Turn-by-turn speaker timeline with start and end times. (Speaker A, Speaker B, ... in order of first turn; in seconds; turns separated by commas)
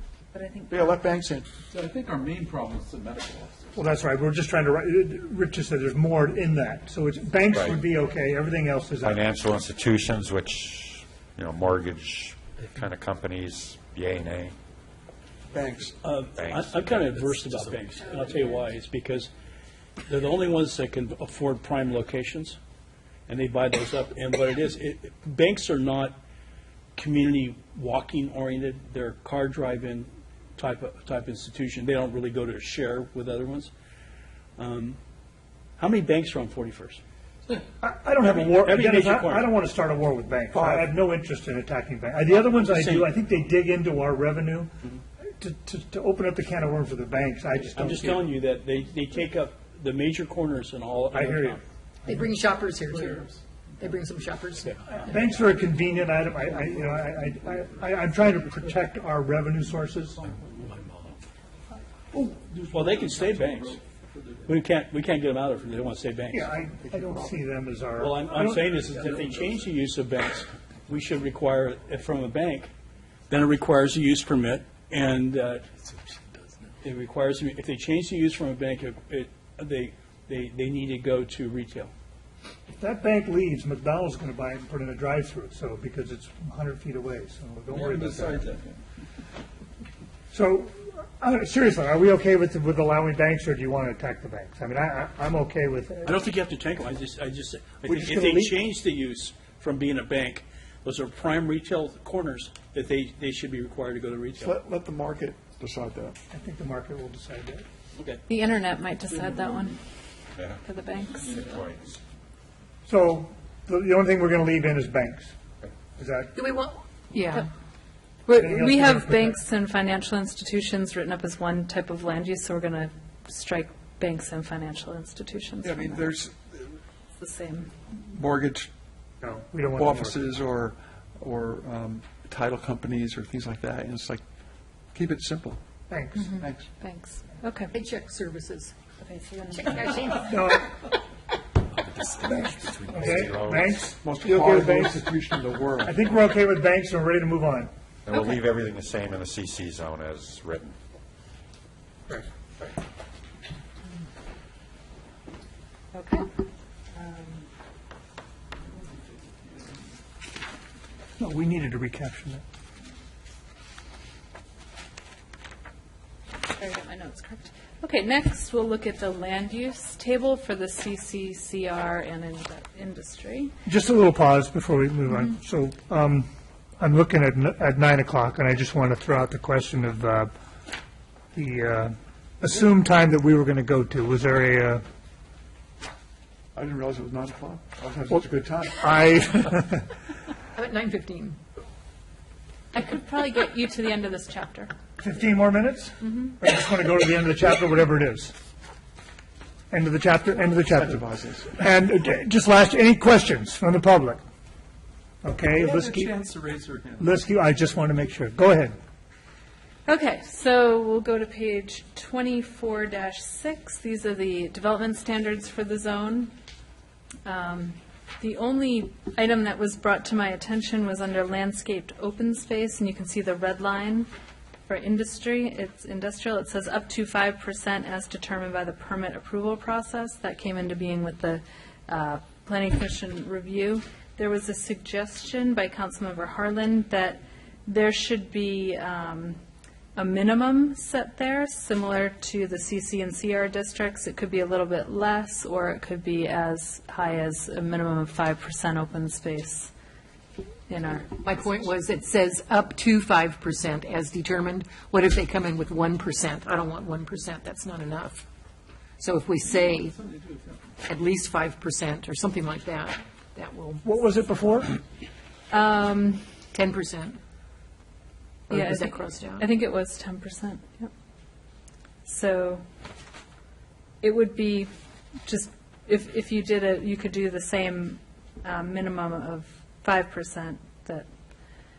Speaker A: 0.3-0.9, Speaker B: 0.7-1.5, Speaker C: 1.7-3.8, Speaker D: 3.7-9.3, Speaker E: 7.5-7.8, Speaker E: 9.0-14.6, Speaker B: 15.5-15.9, Speaker F: 16.0-19.3, Speaker E: 16.3-17.1, Speaker F: 20.1-22.6, Speaker F: 23.3-26.2, Speaker F: 26.9-33.7, Speaker F: 34.6-35.0, Speaker F: 35.8-37.6, Speaker D: 37.8-44.7, Speaker F: 38.2-39.5, Speaker B: 40.5-40.9, Speaker F: 42.3-43.1, Speaker D: 45.4-48.2, Speaker F: 47.7-51.6, Speaker D: 51.1-52.3, Speaker G: 52.0-53.3, Speaker C: 52.9-53.3, Speaker G: 53.8-54.8, Speaker D: 54.9-60.2, Speaker C: 60.2-61.1, Speaker C: 62.3-64.5, Speaker F: 62.7-63.8, Speaker F: 64.5-66.5, Speaker D: 66.3-68.7, Speaker B: 66.9-67.3, Speaker F: 68.0-72.7, Speaker C: 69.0-69.3, Speaker F: 73.3-75.6, Speaker F: 76.8-81.9, Speaker D: 82.7-88.5, Speaker C: 87.7-88.8, Speaker D: 90.3-96.2, Speaker F: 96.0-104.6, Speaker D: 97.8-98.6, Speaker B: 104.4-106.2, Speaker D: 106.3-107.7, Speaker A: 108.3-109.8, Speaker A: 110.5-111.6, Speaker E: 111.3-112.0, Speaker D: 112.8-116.3, Speaker G: 116.3-117.5, Speaker A: 118.2-126.1, Speaker D: 118.3-119.4, Speaker B: 125.6-126.8, Speaker A: 127.2-127.7, Speaker B: 128.1-128.7, Speaker D: 129.2-130.2, Speaker B: 129.7-134.2, Speaker B: 134.9-135.6, Speaker D: 135.9-136.3, Speaker A: 136.1-137.7, Speaker B: 136.4-136.6, Speaker G: 137.7-138.8, Speaker A: 139.0-139.9, Speaker G: 139.5-140.3, Speaker D: 140.2-140.7, Speaker D: 142.1-145.1, Speaker E: 142.9-143.7, Speaker B: 144.0-146.0, Speaker D: 145.8-147.7, Speaker E: 148.1-150.7, Speaker A: 155.9-156.3, Speaker A: 156.9-157.4, Speaker D: 161.2-162.4, Speaker A: 166.4-173.5, Speaker D: 173.7-176.3, Speaker D: 176.8-180.3, Speaker D: 181.3-184.8, Speaker B: 186.5-188.9, Speaker D: 188.1-189.9, Speaker G: 190.6-191.4, Speaker A: 192.7-194.7, Speaker D: 195.0-198.3, Speaker D: 199.7-204.2, Speaker B: 200.7-201.6, Speaker D: 205.2-206.2, Speaker C: 205.6-207.0, Speaker D: 207.0-208.7, Speaker A: 209.8-216.3, Speaker A: 217.2-224.1, Speaker A: 224.7-239.4, Speaker A: 239.9-249.7, Speaker A: 250.7-251.2, Speaker G: 251.2-258.2, Speaker G: 259.0-260.0, Speaker G: 260.8-263.8, Speaker D: 263.8-264.7, Speaker A: 265.5-266.3, Speaker G: 266.5-267.2, Speaker G: 268.5-269.5, Speaker A: 268.5-270.9, Speaker A: 272.0-272.6, Speaker A: 274.0-274.7, Speaker A: 275.2-281.1